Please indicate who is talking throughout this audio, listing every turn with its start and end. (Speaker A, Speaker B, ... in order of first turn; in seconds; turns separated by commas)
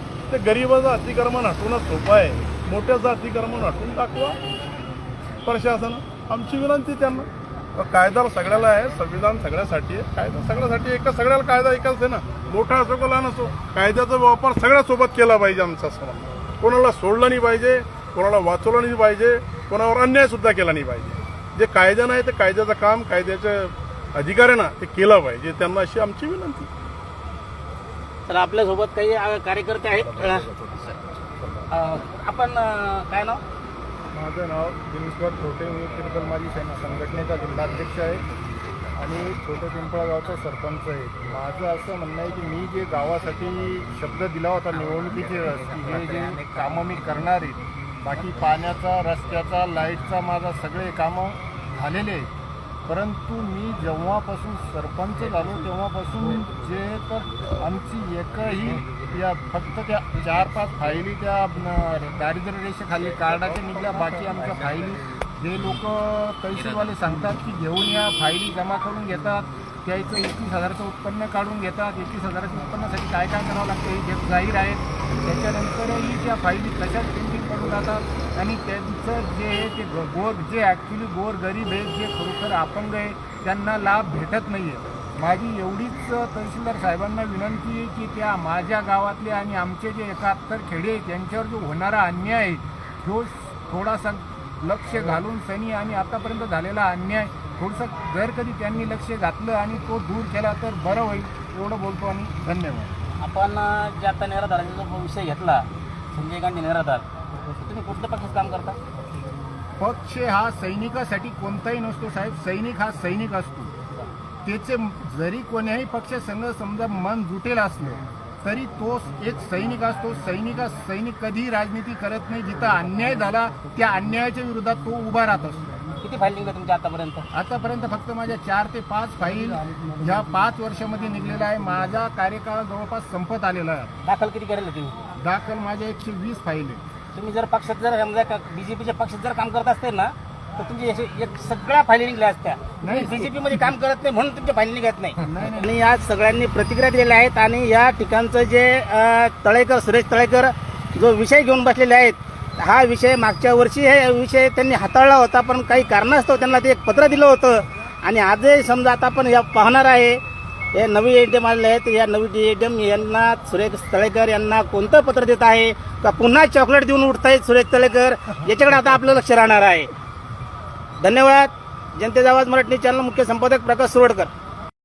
Speaker A: 0.3-4.4, Speaker A: 5.5-26.7, Speaker B: 28.3-30.4, Speaker A: 30.3-30.7, Speaker B: 31.7-33.4, Speaker C: 34.1-38.2, Speaker C: 39.0-52.3, Speaker C: 52.9-102.9, Speaker B: 103.2-107.1, Speaker B: 107.6-108.8, Speaker C: 109.8-113.7, Speaker C: 114.5-125.7, Speaker B: 126.0-127.3, Speaker C: 127.3-133.9, Speaker B: 134.0-135.0, Speaker C: 135.2-136.8, Speaker B: 137.1-160.2, Speaker C: 142.8-143.7, Speaker C: 145.2-145.7, Speaker B: 160.8-169.9, Speaker B: 171.0-174.3